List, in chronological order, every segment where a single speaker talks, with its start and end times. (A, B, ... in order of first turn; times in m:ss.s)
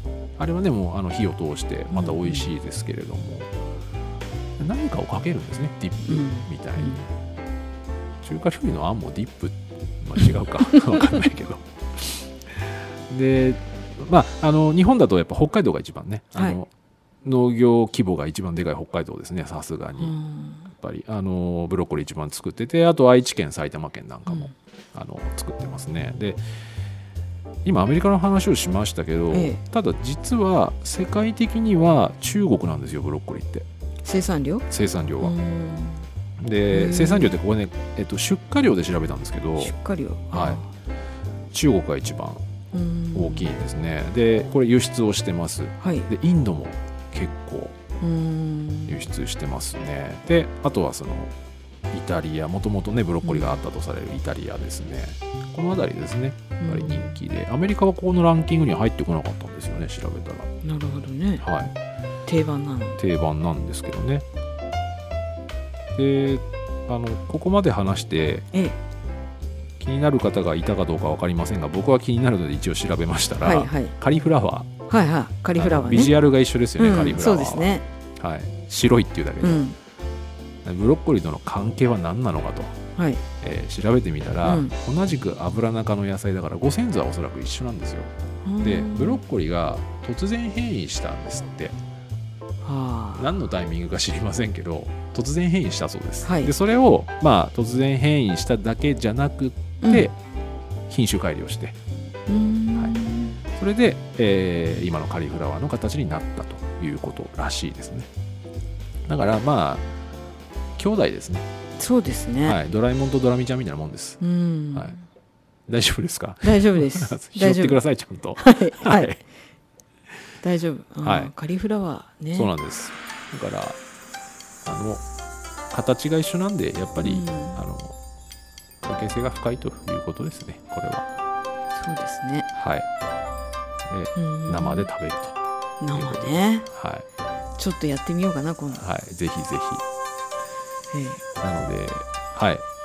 0:00.4-0:03.5 A
0:01.9-0:02.5 B
0:04.6-0:07.1 A
0:06.0-0:07.0 B
0:08.2-0:16.7 A
0:16.3-0:16.6 B
0:17.2-0:20.1 A
0:20.0-0:20.7 B
0:20.7-0:26.4 A
0:24.2-0:24.5 B
0:27.6-0:33.6 A
0:29.3-0:29.6 B
0:34.0-0:34.6 B
0:34.7-0:35.3 A
0:35.2-0:36.0 B
0:36.4-0:39.7 A
0:36.7-0:37.4 B
0:39.6-0:40.7 B
0:40.3-0:40.6 A
0:41.5-0:42.4 A
0:42.7-0:43.5 B
0:43.1-0:47.8 A
0:45.8-0:46.1 B
0:48.0-0:49.0 B
0:48.9-0:51.3 A
0:51.9-1:00.5 A
0:53.2-0:53.6 B
0:56.6-0:57.0 B
1:00.6-1:01.5 B
1:01.4-1:01.7 A
1:02.2-1:03.0 B
1:03.0-1:04.2 A
1:05.9-1:08.5 A
1:09.8-1:14.7 A
1:13.4-1:13.9 B
1:14.9-1:16.2 B
1:15.5-1:19.6 A
1:16.8-1:17.8 B
1:19.4-1:19.8 B
1:20.6-1:22.8 A
1:23.0-1:23.2 B
1:23.4-1:28.1 A
1:24.4-1:24.7 B
1:28.4-1:29.2 B
1:28.6-1:31.8 A
1:32.6-1:33.3 B
1:33.2-1:40.1 A
1:36.2-1:36.5 B
1:39.8-1:40.1 B
1:40.9-1:41.8 A
1:42.3-1:43.4 B
1:43.5-1:48.1 A
1:49.1-1:49.8 A
1:50.8-1:51.5 A
1:51.8-1:52.6 B
1:52.4-1:54.2 A
1:54.2-1:55.0 B
1:55.7-1:59.2 A
1:56.4-1:57.8 B
1:58.4-1:59.1 B
2:00.4-2:02.5 B
2:01.0-2:01.3 A
2:02.3-2:03.8 A
2:04.6-2:05.0 A
2:05.7-2:08.0 A
2:07.0-2:07.6 B
2:08.8-2:11.0 A
2:11.7-2:12.5 B
2:12.5-2:12.9 A
2:13.9-2:15.4 A
2:14.2-2:14.9 B
2:15.8-2:16.7 B
2:15.9-2:17.0 A
2:17.6-2:18.8 B
2:18.7-2:19.8 A
2:20.9-2:21.2 B
2:21.4-2:22.6 A